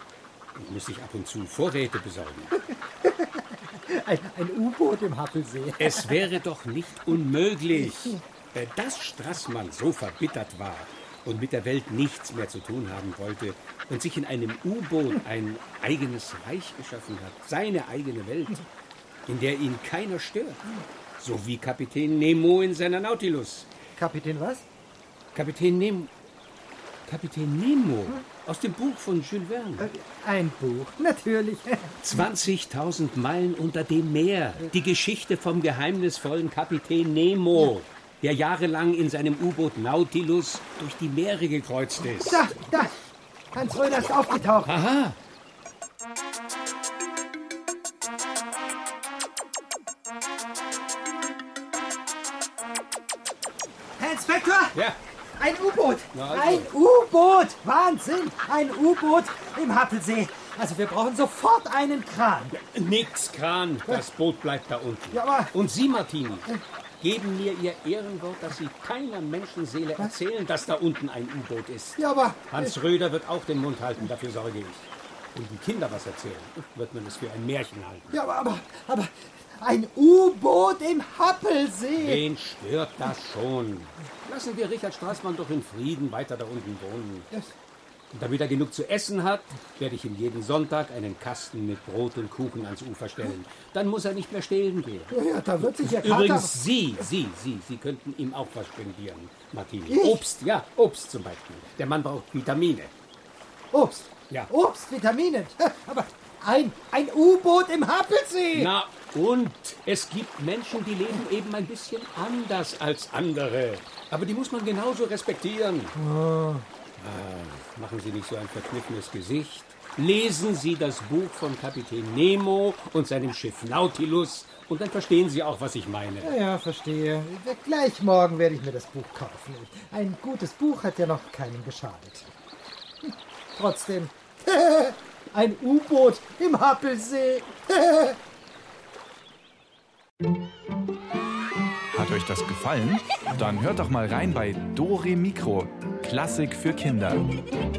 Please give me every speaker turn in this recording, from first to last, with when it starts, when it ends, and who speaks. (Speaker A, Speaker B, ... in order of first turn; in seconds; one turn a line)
Speaker A: 0.5-2.5
Speaker B: 2.5-6.2
Speaker A: 5.8-18.7
Speaker B: 7.8-8.2
Speaker A: 19.3-23.7
Speaker B: 23.9-24.6
Speaker A: 25.3-26.1
Speaker A: 27.1-29.9
Speaker B: 29.8-32.0
Speaker A: 32.0-42.5
Speaker B: 42.1-43.0
Speaker B: 43.5-44.7
Speaker A: 44.6-45.2
Speaker B: 54.0-54.8
Speaker A: 54.7-55.0
Speaker B: 55.4-62.6
Speaker A: 56.1-56.7
Speaker A: 62.5-66.5
Speaker B: 65.1-65.5
Speaker A: 67.0-78.2
Speaker B: 72.0-72.8
Speaker B: 78.1-82.2
Speaker A: 82.0-87.3
Speaker A: 88.1-102.9
Speaker B: 95.1-97.1
Speaker B: 99.9-100.3
Speaker B: 103.7-108.7
Speaker A: 108.5-116.0
Speaker B: 115.9-116.7
Speaker A: 117.0-126.4
Speaker B: 126.2-132.3
Speaker B: 133.0-138.2
Speaker C: 141.9-147.3